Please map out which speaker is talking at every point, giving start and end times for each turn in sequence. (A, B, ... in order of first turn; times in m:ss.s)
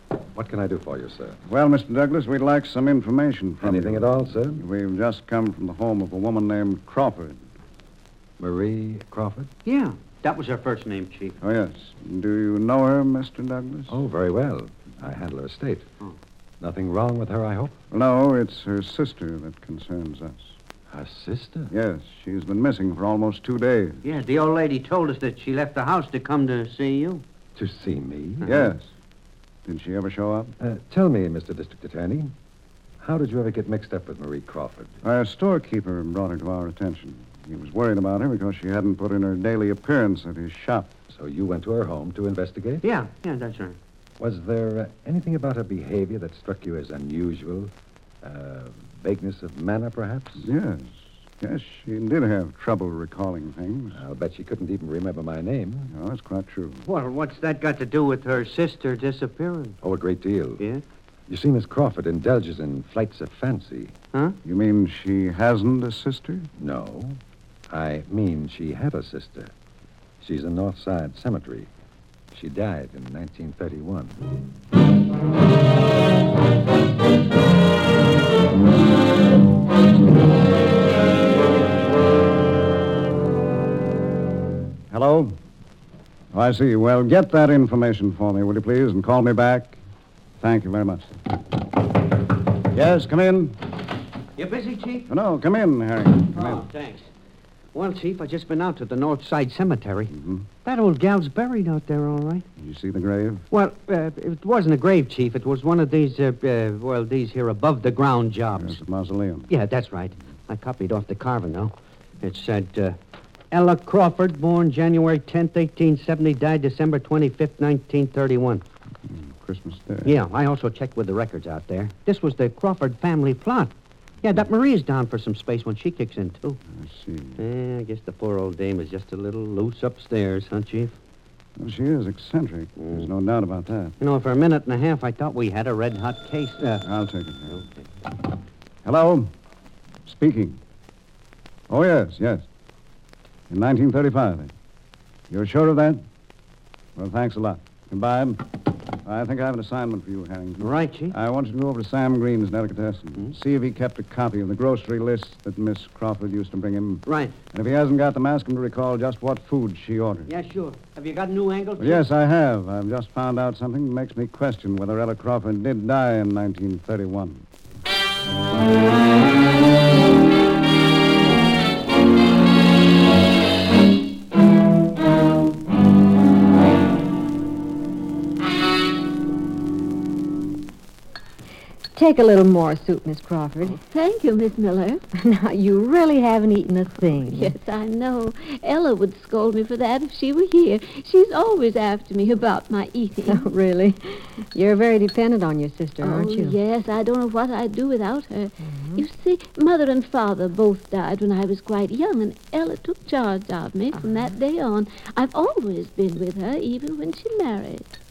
0:00.2-0:01.4 A
0:01.5-0:07.4 B
0:03.6-0:04.6 A
0:08.4-0:09.5 A
0:09.7-0:11.4 C
0:11.4-0:14.0 B
0:13.9-0:15.9 A
0:16.6-0:17.8 A
0:17.9-0:20.6 B
0:20.9-0:21.7 A
0:21.7-0:24.0 B
0:24.0-0:27.2 C
0:27.6-0:28.7 A
0:28.4-0:28.9 B
0:29.7-0:30.5 B
0:30.6-0:32.3 A
0:33.0-0:35.0 A
0:35.0-0:40.9 B
0:41.1-0:42.8 A
0:42.8-0:43.8 C
0:44.2-0:50.5 A
0:50.4-0:54.0 B
0:53.9-0:55.9 A
0:55.9-0:56.8 B
0:56.9-0:59.8 C
0:59.8-1:00.6 A
1:01.3-1:04.0 A
1:04.4-1:06.5 B
1:06.6-1:09.5 A
1:10.2-1:11.7 A
1:12.3-1:14.2 A
1:24.9-1:25.4 B
1:26.3-1:29.8 B
1:30.4-1:31.2 B
1:32.7-1:33.6 B
1:34.4-1:35.1 C
1:35.1-1:36.6 B
1:36.3-1:37.1 C
1:37.7-1:40.1 C
1:40.1-1:40.5 B
1:40.6-1:42.4 C
1:42.6-1:43.4 B
1:43.5-1:48.8 C
1:48.6-1:49.5 B
1:49.5-1:53.0 C
1:53.5-1:58.6 C
1:59.1-2:00.1 B
2:00.0-2:03.7 C
2:04.2-2:06.6 C
2:06.8-2:07.4 B
2:07.4-2:10.9 C
2:11.6-2:14.0 B
2:12.8-2:13.1 C
2:14.0-2:16.8 C
2:16.8-2:17.6 B
2:18.8-2:19.3 B
2:20.1-2:20.6 B
2:21.7-2:22.4 B
2:23.5-2:24.5 B
2:25.3-2:26.0 B
2:27.0-2:28.4 B
2:29.0-2:40.3 B
2:30.6-2:31.2 C
2:37.1-2:37.4 C
2:40.3-2:42.0 C
2:41.8-2:47.4 B
3:02.0-3:03.8 D
3:03.7-3:05.0 E
3:05.2-3:07.5 D
3:07.3-3:13.5 E
3:13.3-3:16.6 D
3:16.0-3:27.9 E
3:18.6-3:19.0 D